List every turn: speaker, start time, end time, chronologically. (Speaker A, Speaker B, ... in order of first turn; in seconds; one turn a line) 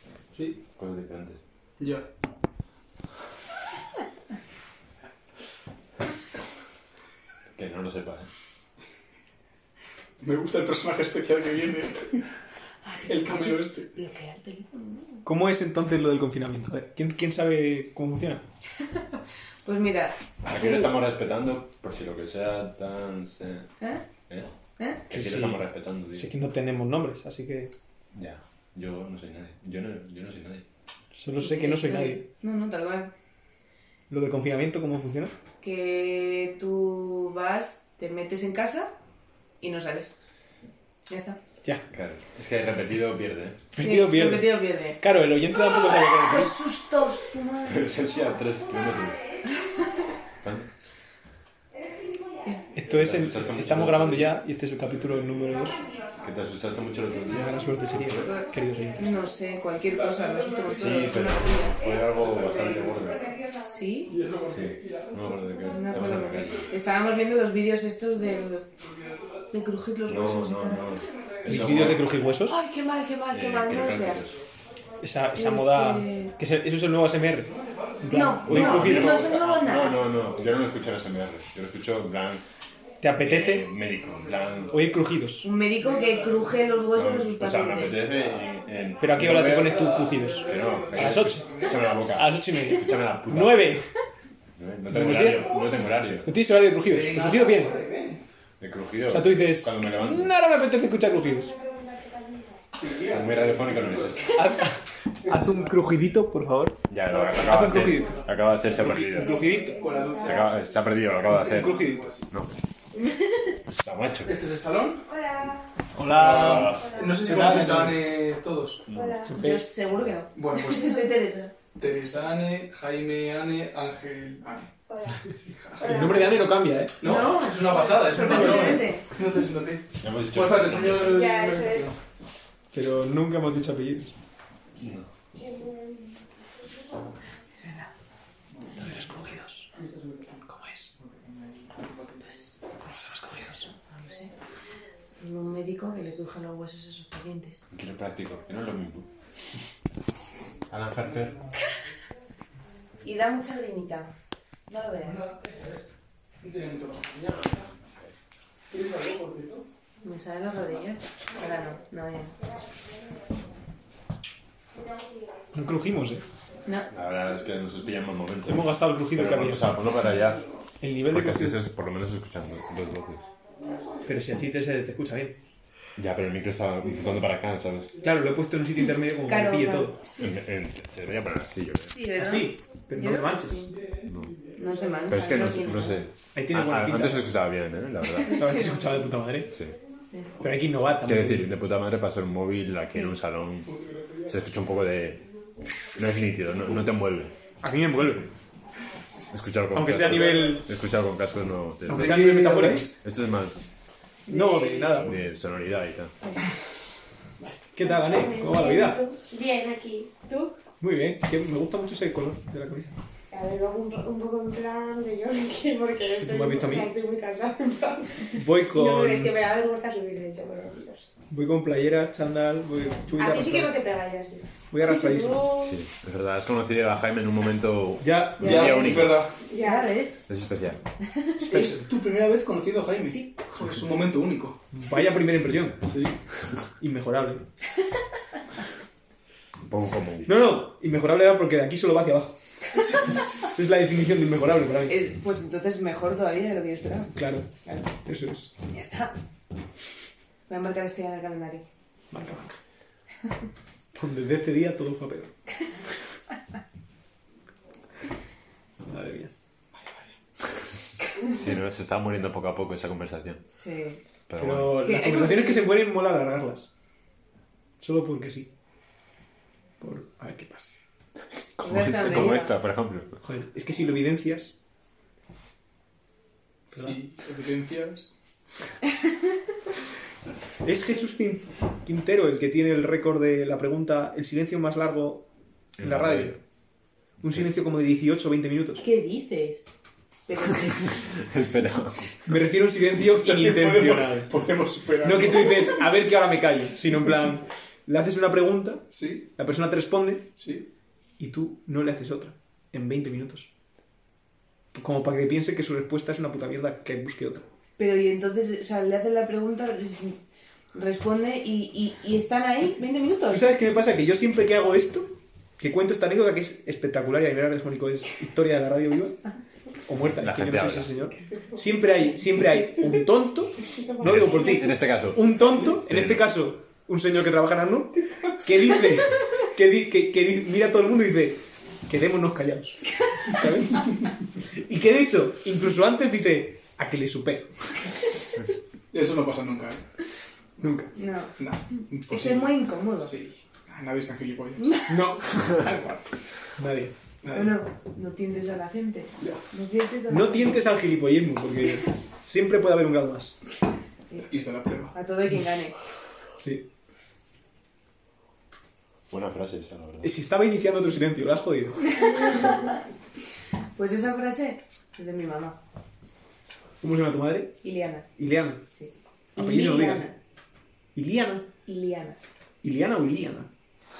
Speaker A: 0.6-1.4
Speaker B: 1.8-2.0
Speaker A: 7.5-8.3
Speaker B: 10.2-12.2
Speaker C: 12.8-15.2
Speaker B: 13.1-13.9
Speaker D: 15.2-18.4
Speaker C: 19.6-20.9
Speaker A: 20.4-23.7
Speaker A: 25.1-26.3
Speaker D: 25.1-25.6
Speaker D: 26.1-27.7
Speaker A: 28.1-30.6
Speaker D: 31.1-32.2
Speaker C: 31.4-33.1
Speaker D: 34.1-35.3
Speaker C: 35.6-38.9
Speaker C: 39.6-40.1
Speaker C: 41.1-41.4
Speaker A: 41.9-43.6
Speaker C: 43.7-45.0
Speaker D: 43.7-46.6
Speaker C: 45.8-47.9
Speaker A: 47.7-49.3
Speaker A: 50.4-50.7
Speaker D: 52.7-55.9
Speaker A: 52.9-54.4
Speaker A: 56.2-58.2
Speaker D: 57.3-59.1
Speaker C: 58.2-61.8
Speaker B: 59.9-61.1
Speaker A: 60.7-63.4
Speaker B: 62.3-62.9
Speaker E: 62.8-63.5
Speaker C: 63.5-64.2
Speaker B: 64.1-65.2
Speaker A: 64.5-66.7
Speaker C: 65.7-68.7
Speaker C: 69.5-71.0
Speaker A: 70.1-72.1
Speaker D: 71.5-72.6
Speaker C: 71.7-74.3
Speaker A: 73.3-74.4
Speaker D: 75.0-79.3
Speaker C: 75.3-76.3
Speaker B: 77.7-78.0
Speaker C: 78.1-80.0
Speaker A: 78.4-82.4
Speaker D: 83.0-83.7
Speaker A: 83.2-84.8
Speaker D: 84.7-85.5
Speaker C: 85.4-88.0
Speaker B: 85.8-86.6
Speaker A: 86.9-93.8
Speaker D: 89.0-91.6
Speaker B: 89.7-91.8
Speaker D: 92.1-93.9
Speaker A: 94.6-96.3
Speaker D: 94.9-95.7
Speaker D: 96.2-97.7
Speaker B: 96.8-98.2
Speaker A: 98.6-100.3
Speaker D: 99.1-101.5
Speaker E: 101.3-102.6
Speaker B: 102.8-104.5
Speaker A: 103.1-104.6
Speaker D: 104.3-106.8
Speaker B: 105.3-105.6
Speaker A: 106.9-109.5
Speaker B: 107.1-109.2
Speaker D: 107.4-108.2
Speaker D: 108.7-109.8
Speaker E: 109.0-110.5
Speaker B: 109.7-110.6
Speaker A: 110.2-112.5
Speaker B: 111.2-112.3
Speaker D: 111.3-112.1
Speaker C: 113.0-113.5
Speaker A: 113.7-114.3
Speaker B: 114.2-115.0
Speaker E: 115.1-115.7
Speaker D: 115.9-118.0
Speaker A: 116.1-117.8
Speaker B: 116.1-118.8
Speaker E: 116.7-117.2
Speaker A: 118.9-119.3
Speaker E: 118.9-119.4
Speaker D: 119.2-119.7
Speaker C: 119.4-121.5
Speaker B: 120.3-121.1
Speaker B: 121.8-124.7
Speaker E: 124.9-125.2
Speaker B: 125.3-126.4
Speaker E: 125.8-126.4
Speaker D: 125.8-127.1
Speaker B: 127.0-132.0
Speaker C: 127.0-129.1
Speaker A: 130.0-131.3
Speaker E: 131.1-131.9
Speaker D: 132.7-134.1
Speaker A: 134.8-135.1
Speaker E: 135.4-136.1
Speaker C: 137.6-137.9
Speaker D: 138.8-139.7
Speaker B: 139.8-140.4
Speaker D: 140.5-140.9
Speaker B: 141.2-142.3
Speaker C: 142.2-144.3
Speaker D: 143.0-143.7
Speaker C: 145.2-147.6
Speaker A: 147.7-149.1
Speaker A: 150.7-151.4
Speaker C: 153.0-154.1
Speaker C: 154.7-155.2
Speaker B: 155.0-155.9
Speaker B: 156.4-157.6
Speaker B: 158.7-159.7
Speaker C: 160.0-162.4
Speaker D: 165.5-166.2
Speaker A: 166.9-170.4
Speaker D: 168.5-169.8
Speaker D: 170.8-171.6
Speaker A: 171.1-173.3
Speaker D: 174.1-175.4
Speaker A: 176.0-177.9
Speaker D: 178.0-180.1
Speaker C: 179.2-180.1
Speaker A: 180.2-182.0
Speaker C: 181.8-183.7
Speaker D: 182.2-183.7
Speaker B: 183.7-185.1
Speaker C: 184.6-186.0
Speaker A: 185.1-188.4
Speaker D: 186.3-187.3
Speaker C: 188.1-189.0
Speaker D: 188.3-189.5
Speaker D: 190.4-191.5
Speaker A: 191.0-193.7
Speaker B: 193.7-194.3
Speaker A: 194.3-195.2
Speaker A: 195.9-197.3
Speaker D: 197.6-198.3
Speaker A: 199.3-203.6
Speaker D: 199.7-200.7
Speaker B: 200.0-200.6
Speaker D: 201.9-202.9
Speaker B: 201.9-203.0
Speaker D: 204.3-205.2
Speaker C: 204.3-205.1
Speaker A: 205.0-206.2
Speaker D: 207.8-209.0
Speaker E: 207.8-210.5
Speaker D: 210.8-213.0
Speaker E: 213.3-221.1
Speaker D: 216.1-216.9
Speaker D: 218.3-219.4
Speaker D: 221.3-223.8
Speaker E: 223.1-225.8
Speaker D: 224.7-225.4
Speaker A: 225.6-229.3
Speaker D: 228.0-228.9
Speaker B: 228.4-229.4
Speaker C: 228.4-228.9
Speaker E: 229.5-229.9
Speaker C: 229.5-230.3
Speaker A: 230.3-230.8
Speaker C: 231.0-231.7
Speaker B: 231.4-234.6
Speaker D: 234.7-235.8
Speaker B: 235.8-236.2
Speaker D: 236.8-237.4
Speaker A: 239.7-240.6
Speaker D: 240.2-242.3
Speaker D: 243.3-245.0
Speaker C: 244.9-247.9
Speaker D: 247.2-247.5
Speaker D: 248.0-248.5
Speaker C: 248.7-249.1
Speaker C: 250.5-251.7
Speaker D: 252.1-252.6
Speaker D: 253.9-255.3
Speaker D: 258.9-259.3
Speaker A: 261.3-263.4
Speaker C: 263.5-264.0
Speaker A: 264.3-264.8
Speaker D: 264.4-266.7
Speaker C: 264.8-265.7
Speaker D: 267.8-268.5
Speaker D: 269.8-270.7
Speaker A: 271.6-273.1
Speaker C: 271.6-272.5
Speaker D: 273.2-274.5
Speaker B: 276.7-278.1
Speaker D: 280.6-285.2
Speaker A: 285.8-286.4
Speaker D: 285.8-286.4
Speaker D: 287.2-288.8
Speaker C: 288.8-289.7
Speaker C: 290.3-291.1
Speaker A: 291.0-292.2
Speaker D: 292.2-294.4
Speaker B: 293.0-295.9
Speaker D: 295.0-300.3
Speaker B: 298.9-299.2
Speaker B: 300.4-300.6
Speaker D: 301.2-303.5
Speaker D: 304.7-307.4
Speaker C: 307.8-310.2
Speaker C: 310.7-313.4
Speaker D: 313.3-319.2
Speaker D: 319.9-333.8
Speaker A: 320.2-320.9
Speaker E: 323.7-324.7
Speaker A: 324.0-326.2
Speaker D: 334.6-337.5
Speaker B: 338.9-339.9
Speaker D: 340.6-340.9
Speaker C: 340.9-341.3
Speaker B: 341.4-344.7
Speaker C: 342.1-343.1
Speaker C: 344.6-344.9
Speaker D: 344.9-345.7
Speaker B: 345.6-346.0
Speaker D: 346.6-346.9
Speaker B: 347.2-347.6
Speaker C: 347.3-350.5
Speaker D: 350.1-353.4
Speaker B: 354.2-354.9
Speaker C: 354.9-355.8
Speaker D: 356.4-356.6
Speaker A: 359.1-360.1
Speaker D: 360.0-361.9
Speaker C: 361.9-362.7
Speaker C: 363.8-365.6
Speaker D: 366.8-367.6
Speaker C: 367.6-368.1
Speaker D: 368.2-368.6
Speaker C: 368.8-370.1
Speaker D: 369.4-370.1
Speaker D: 370.9-371.5
Speaker C: 371.6-372.2
Speaker D: 372.6-373.5